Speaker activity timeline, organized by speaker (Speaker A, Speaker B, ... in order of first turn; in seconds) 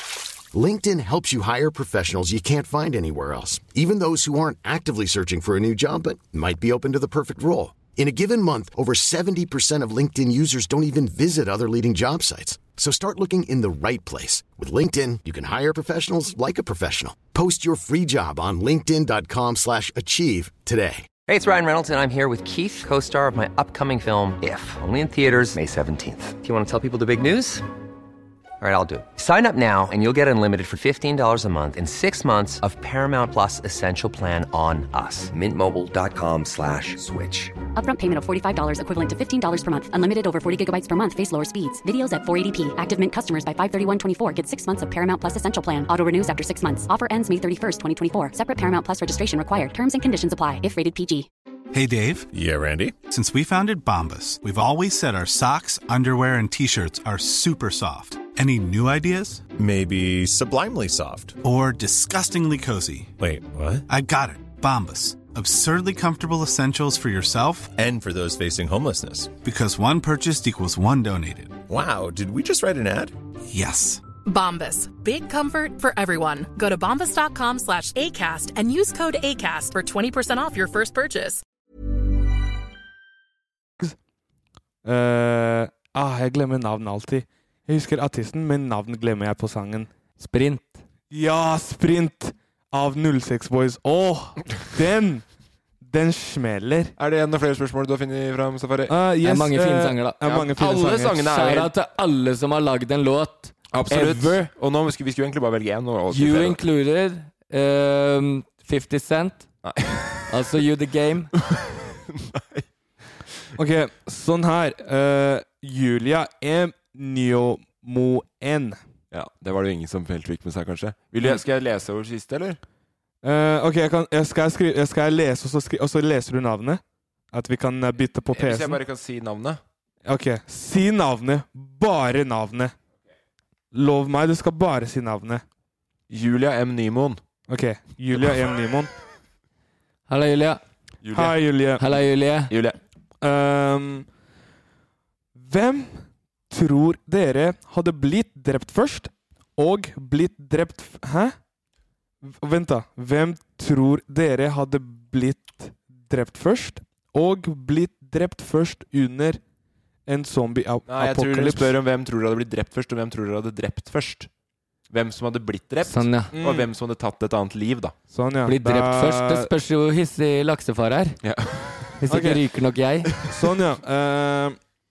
Speaker A: 0.5-21.1
Speaker B: 21.3-27.7, 28.6-37.6
Speaker C: 37.8-51.3
Speaker D: 51.7-52.3, 53.1-59.4, 61.4-63.1, 63.9-67.7, 69.4-71.6, 73.5-74.0
Speaker E: 52.3-53.0, 59.5-61.4, 63.2-63.9, 67.7-69.4, 71.7-73.1
Speaker F: 74.2-81.4
Speaker G: 84.8-89.9, 91.1-95.2, 95.8-96.9, 98.9-101.2, 113.6-118.8, 123.2-128.8, 130.1-132.7, 133.7-135.4, 137.5-138.9, 141.1-141.8, 143.2-144.1, 145.4-151.3, 152.2-159.4, 160.1-161.7, 166.3-166.7, 168.1-169.5, 172.1-172.4, 173.2-174.6
Speaker H: 90.2-90.8, 99.2-100.2, 101.1-104.5, 106.1-109.5, 110.3-111.3, 140.1-140.6, 141.8-142.5, 165.8-166.3, 168.5-171.2, 172.0-173.1
Speaker I: 97.0-99.0, 100.2-101.7, 103.7-106.6, 109.6-110.3, 111.5-112.7, 119.1-122.6, 128.3-129.6, 136.1-137.2, 141.0-141.4, 142.5-142.8, 160.9-164.3, 164.9-167.9, 171.2-171.9